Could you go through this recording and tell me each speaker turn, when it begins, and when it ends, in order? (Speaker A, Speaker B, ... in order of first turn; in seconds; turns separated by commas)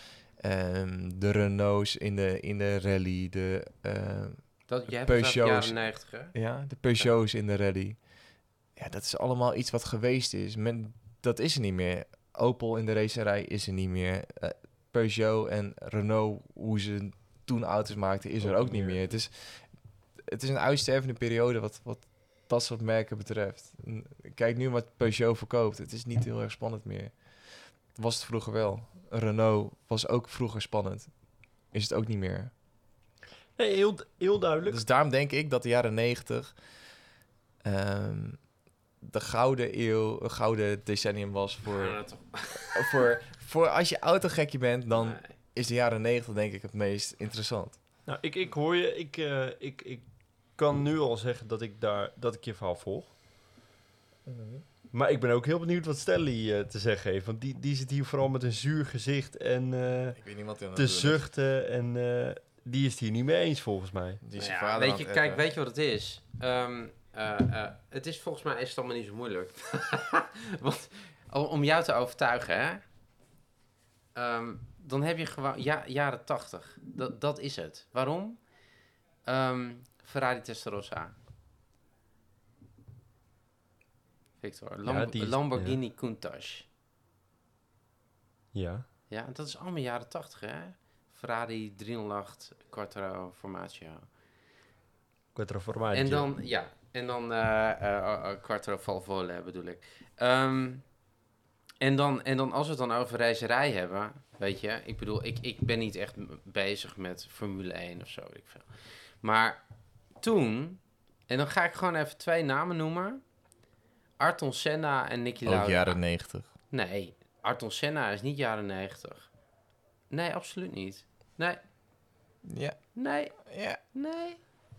Speaker A: 0.4-5.8, Speaker B: 4.7-6.3, Speaker A: 6.3-8.0, Speaker A: 8.8-19.6, Speaker C: 18.4-19.0, Speaker A: 20.3-27.1, Speaker A: 27.9-31.1, Speaker A: 31.7-32.5, Speaker C: 33.6-34.8, Speaker A: 34.6-36.5, Speaker A: 37.6-38.4, Speaker A: 39.0-42.0, Speaker B: 41.7-43.0, Speaker A: 42.5-47.8, Speaker B: 44.9-45.4, Speaker C: 48.1-53.1, Speaker A: 54.3-54.6, Speaker C: 54.9-60.2, Speaker A: 60.2-61.2, Speaker C: 60.8-64.2, Speaker A: 64.2-65.4, Speaker B: 64.4-72.8, Speaker B: 74.2-78.4, Speaker B: 79.2-81.2, Speaker B: 84.4-86.7, Speaker C: 84.8-85.8, Speaker C: 88.5-88.9, Speaker B: 89.1-94.1, Speaker C: 95.3-96.3, Speaker B: 95.9-100.8, Speaker B: 101.8-108.7, Speaker B: 109.2-109.6, Speaker B: 110.2-113.2, Speaker B: 114.2-116.0, Speaker A: 115.5-116.5, Speaker B: 116.7-119.3, Speaker B: 120.1-121.6, Speaker A: 122.5-122.8, Speaker B: 123.0-123.4, Speaker A: 123.4-123.8, Speaker B: 123.9-124.4